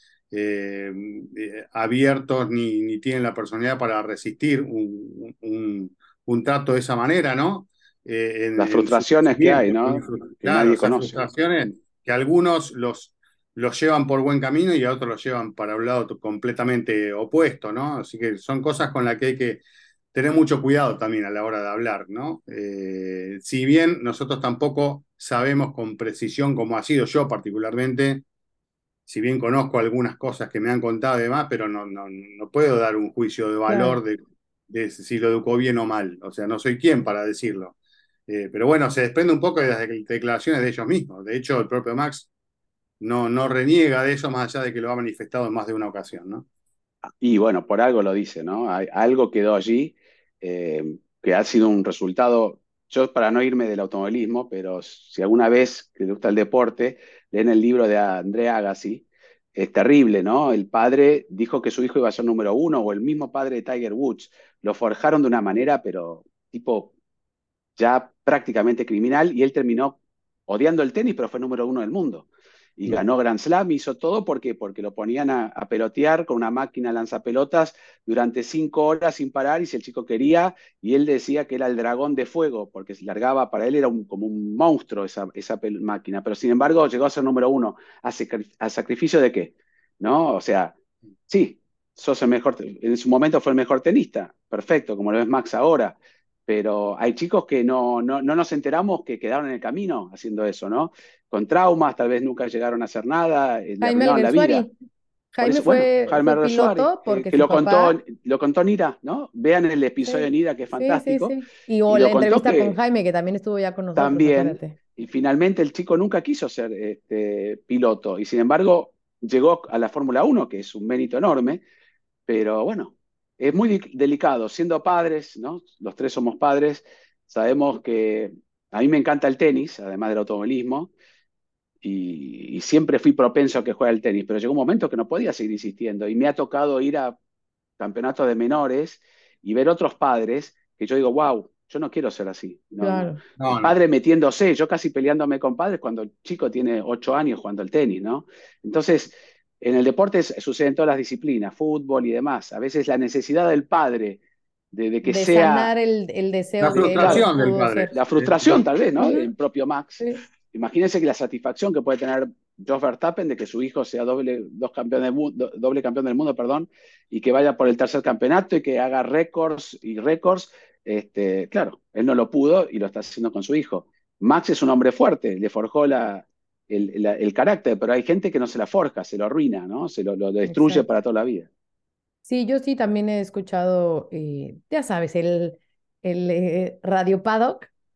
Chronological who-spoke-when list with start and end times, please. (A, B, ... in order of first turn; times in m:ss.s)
0:00.3-0:19.6 A
0:08.6-0:11.2 B
0:20.1-0:28.2 A
0:29.1-0:37.8 A
0:33.7-0:34.0 C
0:38.3-0:42.3 A
0:43.0-0:46.5 A
0:47.2-0:59.0 B
0:59.6-1:06.9 B
1:07.8-1:30.8 B
1:31.3-1:36.0 B
1:36.5-1:44.7 B
1:43.8-1:44.7 C
1:45.3-1:48.0 C
1:45.4-1:52.8 B
1:50.0-1:54.8 C
1:54.0-2:01.6 B
2:02.3-2:10.9 B
2:11.8-2:17.2 B
2:17.8-2:34.2 B
2:22.8-2:23.2 C
2:23.4-2:23.7 A
2:34.7-2:35.7 B
2:35.0-2:38.0 C
2:36.6-2:38.6 A
2:36.8-2:37.3 B
2:37.9-3:01.5 B
2:39.0-2:39.3 C
3:00.4-3:00.9 C
3:02.2-3:07.7 C